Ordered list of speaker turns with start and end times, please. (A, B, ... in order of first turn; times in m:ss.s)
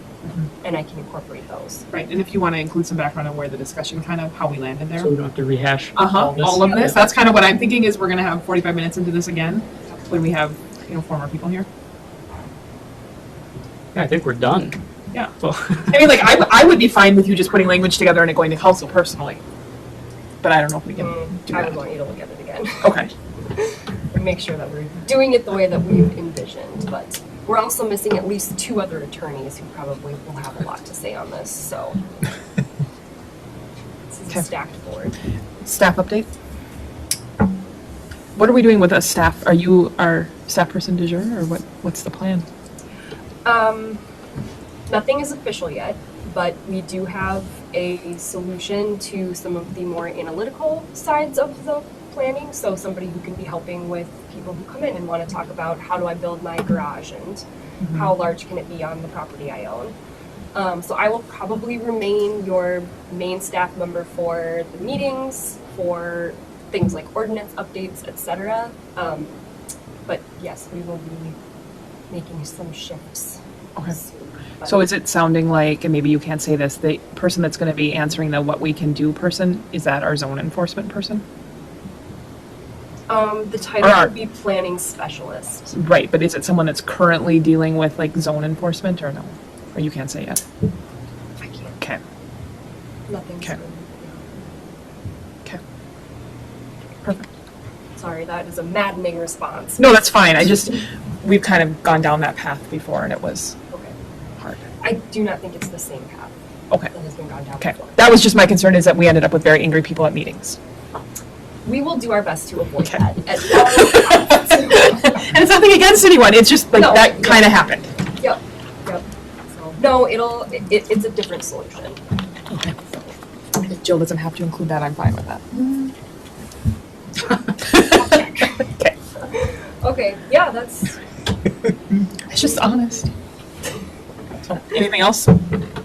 0:00.6-0:01.9 A
0:01.9-0:05.1 B
0:05.0-0:07.0 C
0:05.9-0:11.7 B
0:13.9-0:14.8 C
0:15.4-0:16.0 C
0:15.9-0:19.4 B
0:20.4-0:21.8 B
0:21.0-0:22.9 A
0:22.8-0:23.1 B
0:23.5-0:32.0 A
0:34.1-0:35.2 A
0:35.6-0:36.3 B
0:38.4-0:42.5 B
0:43.4-0:44.0 A
0:44.9-0:59.9 A
0:57.8-0:58.1 B
1:00.5-1:09.4 A
1:10.1-1:11.4 A
1:12.1-1:14.8 A
1:14.6-1:21.2 B
1:23.1-1:25.7 A
1:23.8-1:24.1 B
1:25.7-1:30.4 B
1:31.4-1:31.7 A
1:33.1-1:34.4 A
1:37.0-1:37.3 B
1:38.0-1:39.9 A
1:39.8-1:43.6 B
1:44.4-1:44.7 B
1:44.8-1:46.3 A
1:46.9-1:48.0 A
1:47.6-1:50.6 B
1:51.6-1:54.9 A
1:52.8-1:57.9 B
1:56.7-1:57.4 A
1:58.2-2:02.0 A
2:02.5-2:02.7 B
2:02.7-2:03.1 A
2:03.6-2:05.9 B
2:07.3-2:08.9 B
2:09.2-2:11.0 A
2:11.9-2:13.1 B
2:14.4-2:15.4 B